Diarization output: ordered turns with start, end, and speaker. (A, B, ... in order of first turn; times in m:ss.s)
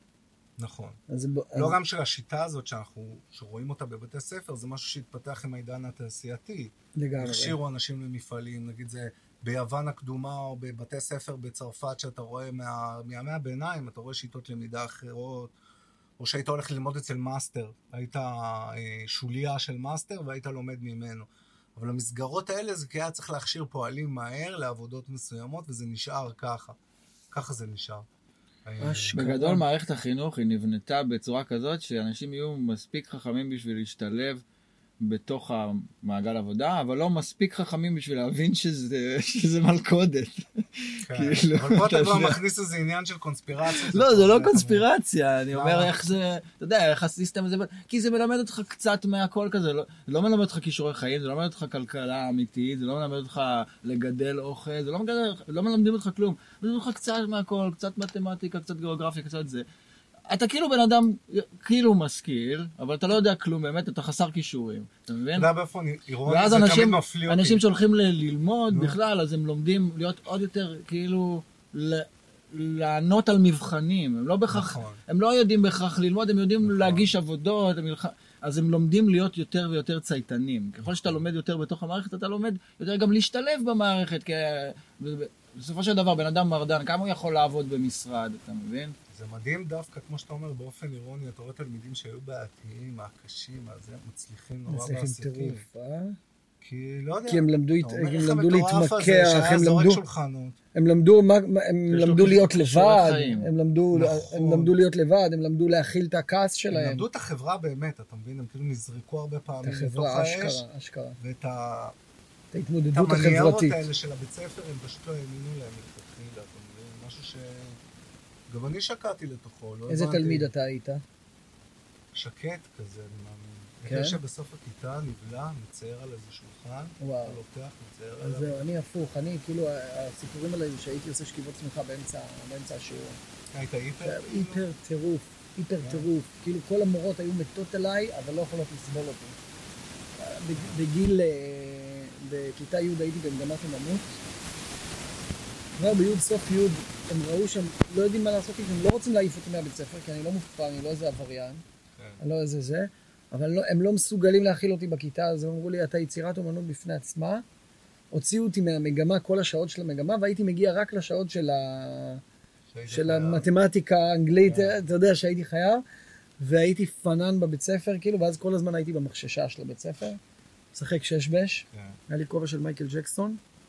0:00.6-0:01.0 A
0:01.1-0:01.8 B
0:01.5-0:15.5 A
0:07.0-0:07.6 B
0:16.2-0:26.8 A
0:27.3-0:28.0 A
0:28.6-0:29.1 A
0:28.8-0:29.6 B
0:29.1-0:34.4 C
0:35.0-0:42.4 C
0:41.0-0:44.8 A
0:43.7-0:59.6 C
0:45.5-0:46.1 A
1:00.3-1:05.5 C
1:05.3-1:07.6 A
1:06.2-1:28.9 C
1:08.7-1:09.0 A
1:14.5-1:15.0 A
1:16.6-1:17.1 A
1:20.8-1:21.2 A
1:29.1-1:35.6 A
1:34.7-1:36.2 B
1:36.6-1:40.6 A
1:37.3-1:40.0 B
1:40.7-1:47.0 B
1:41.9-1:43.5 C
1:43.9-1:44.7 A
1:46.7-1:50.6 A
1:49.6-1:51.2 B
1:51.2-1:51.9 A
1:52.5-1:53.8 B
1:52.9-1:57.8 A
1:58.5-2:00.5 A
1:59.9-2:01.0 B
2:02.1-2:08.6 A
2:03.8-2:04.2 B
2:07.0-2:07.4 B
2:08.2-2:13.2 B
2:13.5-2:14.6 A
2:14.0-2:19.4 B
2:15.8-2:16.1 A
2:20.2-2:24.2 B
2:25.8-2:31.6 B
2:32.2-2:37.4 B
2:38.1-2:42.2 B
2:42.7-2:43.4 A
2:42.9-2:45.8 B
2:44.4-2:44.8 A
2:46.4-2:50.2 B
2:50.7-2:53.4 B
2:51.7-2:52.0 A